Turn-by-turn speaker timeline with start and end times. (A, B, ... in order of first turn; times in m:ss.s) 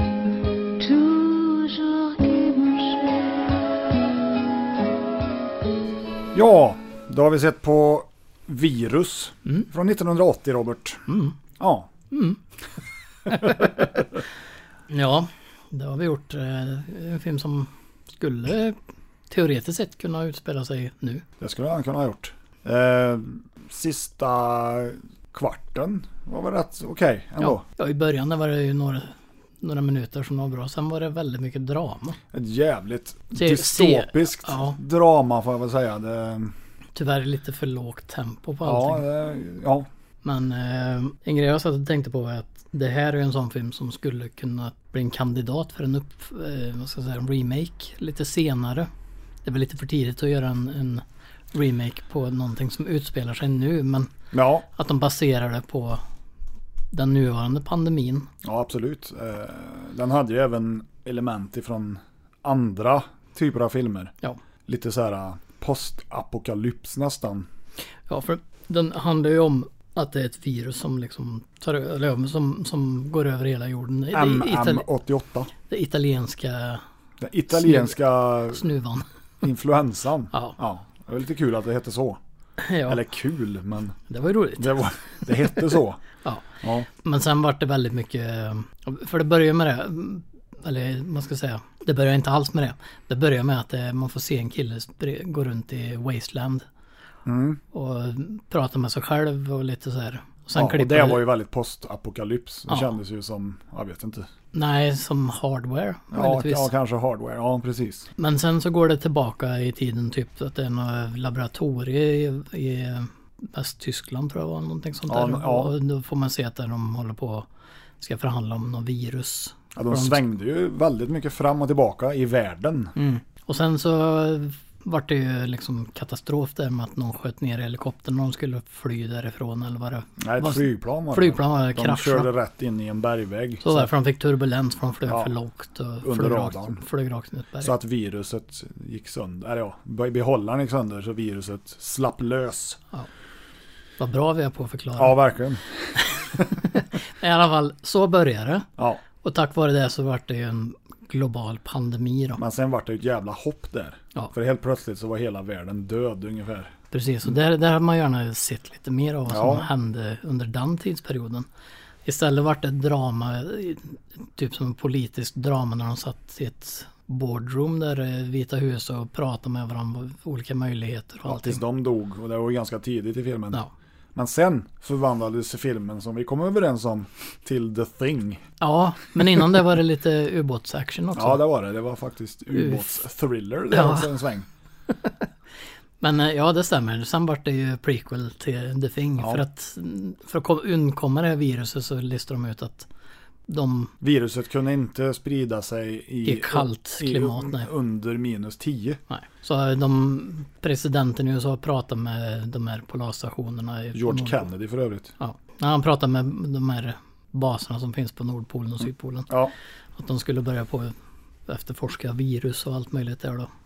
0:00.8-0:03.7 A
0:06.3-0:11.9 B
0:11.1-0:11.3 C
0:12.1-0:12.4 C
0:13.3-0:13.7 C
0:13.4-0:13.7 B
0:14.9-0:18.8 C
0:19.3-0:21.2 C
0:21.4-0:27.6 B
0:27.4-0:32.2 C
0:32.3-0:36.5 B
0:33.3-0:34.8 C
0:37.0-0:39.0 C
0:38.6-0:39.9 B
0:40.2-0:48.9 C
0:49.4-0:54.1 C
0:54.3-0:54.6 B
0:54.7-0:56.0 C
0:56.9-0:58.3 C
0:58.4-1:04.1 B
1:04.7-1:07.5 B
1:08.1-1:14.8 C
1:14.1-1:15.5 B
1:15.6-1:16.8 C
1:17.2-1:18.7 B
1:17.5-1:19.0 C
1:19.4-1:22.2 B
1:22.6-1:23.0 C
1:22.9-1:24.0 B
1:24.1-1:24.8 C
1:24.6-1:26.0 B
1:26.2-1:36.6 C
1:26.6-1:26.9 B
1:37.2-1:37.6 B
1:37.7-1:41.3 C
1:40.6-1:44.3 B
1:44.5-1:46.7 C
1:46.1-1:48.1 B
1:48.2-1:57.5 C
1:55.1-1:55.7 B
1:58.0-2:00.2 C
1:59.7-2:02.9 B
2:03.0-2:12.3 C
2:10.2-2:13.9 B
2:13.6-2:17.7 C
2:15.1-2:15.3 B
2:16.0-2:16.8 B
2:17.6-2:22.8 B
2:24.0-2:25.2 C
2:25.0-2:26.5 B
2:26.3-2:28.7 C
2:29.2-2:32.4 C
2:32.4-2:36.7 B
2:36.9-2:41.4 C
2:39.3-2:39.7 B
2:42.0-2:51.6 C
2:51.2-2:53.6 B
2:54.1-2:58.4 B
2:58.6-3:01.4 C
3:01.1-3:04.5 B
3:02.5-3:03.0 C
3:03.7-3:04.1 C
3:06.0-3:12.9 C
3:09.2-3:09.4 B
3:13.5-3:13.9 C
3:14.0-3:19.0 B
3:16.2-3:17.7 C
3:19.1-3:24.5 C
3:23.9-3:25.1 B
3:25.2-3:29.3 C
3:29.3-3:29.5 B
3:30.0-3:30.9 C
3:31.5-3:33.5 C